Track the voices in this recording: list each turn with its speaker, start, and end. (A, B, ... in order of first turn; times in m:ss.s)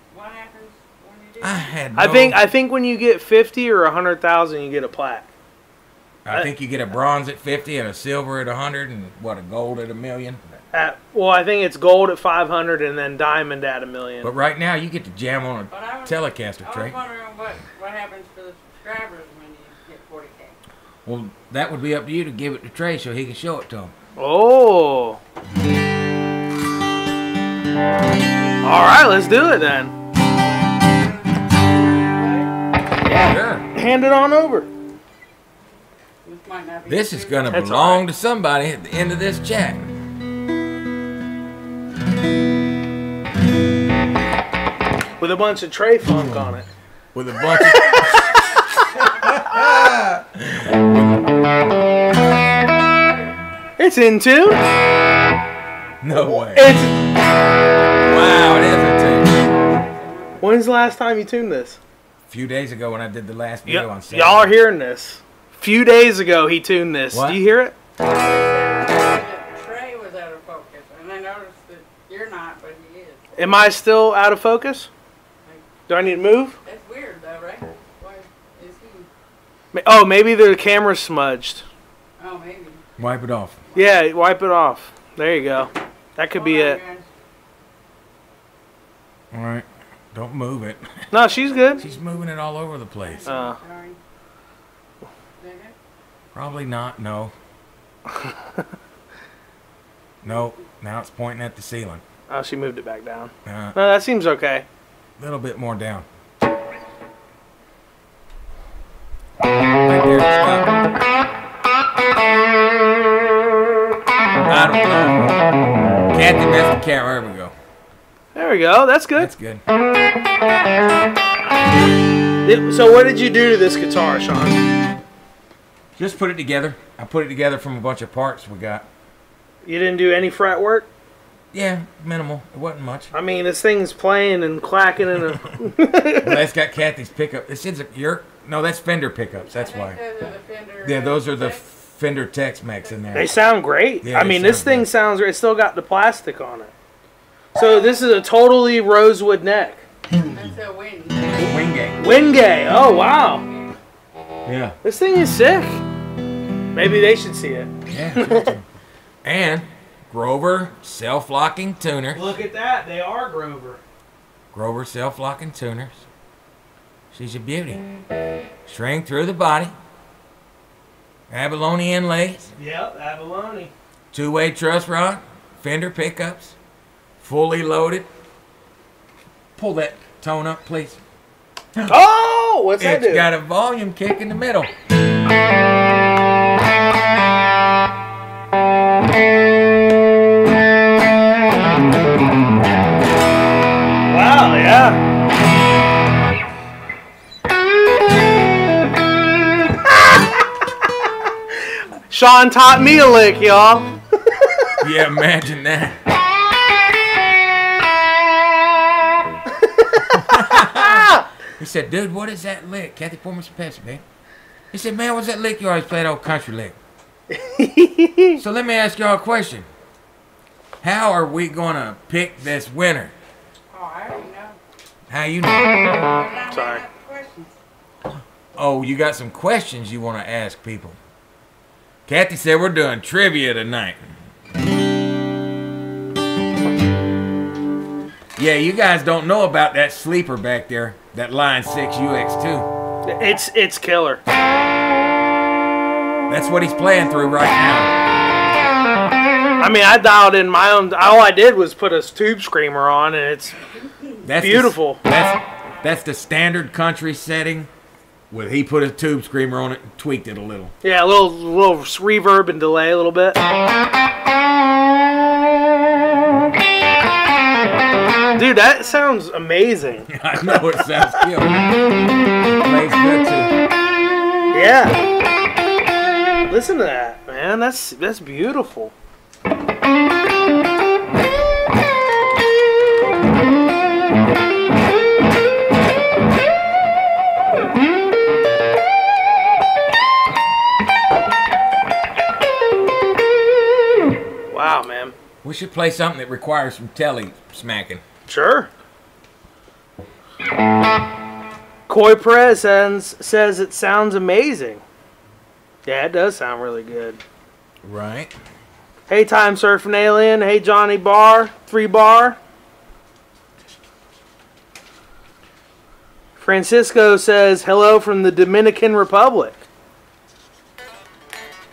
0:00.1-0:01.8 A
0:01.4-0:02.4 B
0:02.0-0:05.3 C
0:06.2-0:10.6 B
0:10.7-0:14.3 C
0:14.2-0:17.0 B
0:15.7-0:20.6 A
0:21.0-0:23.9 B
0:24.2-0:25.2 C
0:28.6-0:29.9 C
0:30.7-0:32.5 A
0:33.0-0:34.7 C
0:33.1-0:33.7 B
0:36.2-0:37.6 A
0:36.9-0:39.9 B
0:37.5-0:38.0 C
0:45.2-0:46.7 C
0:47.1-0:48.4 B
0:49.0-0:51.2 B
0:53.8-0:54.6 C
0:56.0-0:56.8 B
0:56.1-0:56.9 C
0:58.0-0:59.3 B
0:59.5-1:00.5 A
1:00.4-1:01.8 C
1:02.3-1:04.5 B
1:03.6-1:07.7 C
1:07.1-1:07.4 B
1:08.0-1:13.2 A
1:13.4-1:14.9 C
1:15.9-1:16.6 C
1:16.6-1:19.1 A
1:19.7-1:21.6 C
1:22.2-1:22.8 A
1:23.0-1:23.6 B
1:23.7-1:26.8 C
1:26.3-1:27.1 A
1:29.3-1:31.0 B
1:31.1-1:31.8 C
1:31.6-1:31.8 A
1:31.8-1:33.3 B
1:33.0-1:34.0 A
1:33.3-1:33.6 C
1:35.4-1:35.7 A
1:36.3-1:37.3 B
1:40.2-1:42.0 B
1:42.3-1:44.6 C
1:43.4-1:43.8 B
1:45.2-1:46.0 B
1:49.8-1:50.7 B
1:54.5-1:55.4 B
1:56.1-1:57.5 B
1:58.3-1:59.3 C
1:59.2-1:59.6 B
2:02.4-2:04.6 C
2:06.0-2:08.8 B
2:09.6-2:10.9 C
2:11.5-2:13.1 B
2:13.1-2:16.4 C
2:16.2-2:20.0 B
2:19.5-2:21.6 A
2:20.8-2:23.4 B
2:23.1-2:26.7 C
2:24.0-2:24.9 B
2:27.5-2:29.8 C
2:30.3-2:31.5 A
2:31.4-2:32.0 B
2:32.0-2:33.4 C
2:33.4-2:33.7 A
2:34.4-2:34.8 B
2:34.8-2:35.8 C
2:36.7-2:38.5 C
2:37.9-2:38.6 B
2:39.2-2:42.3 B
2:42.1-2:43.8 C
2:44.5-2:46.0 B
2:47.1-2:47.8 B
2:48.6-2:49.7 B
2:51.3-2:52.5 B
2:52.6-2:53.7 C
2:54.1-2:56.6 B
2:57.2-2:58.0 B
2:59.6-3:01.0 B
3:01.8-3:03.3 C
3:02.8-3:04.7 B
3:14.1-3:15.0 C
3:22.1-3:24.7 C
3:24.8-3:26.0 B
3:30.1-3:34.0 B
3:30.9-3:31.2 C
3:34.7-3:36.8 B
3:37.3-3:38.4 C
3:38.4-3:39.7 B
3:40.8-3:43.1 B
3:43.7-3:44.6 A
3:45.1-3:45.8 B
3:46.0-3:47.5 A
3:46.5-3:46.8 C
3:48.6-3:51.0 B
3:52.0-3:54.0 B
3:58.4-4:02.7 B
4:03.1-4:04.2 C
4:06.3-4:08.0 B
4:09.6-4:13.6 C
4:14.2-4:15.0 C
4:14.2-4:17.7 B
4:18.3-4:20.7 B
4:20.8-4:23.4 C
4:28.4-4:31.0 C
4:30.1-4:31.6 B
4:32.6-4:33.5 B
4:34.5-4:35.0 C
4:36.5-4:38.9 C
4:54.5-4:55.1 C
4:55.4-4:58.0 B
4:58.3-4:58.7 C
5:01.9-5:04.8 C
5:05.8-5:07.2 C
5:07.8-5:08.3 B
5:09.1-5:12.4 C
5:16.4-5:19.6 C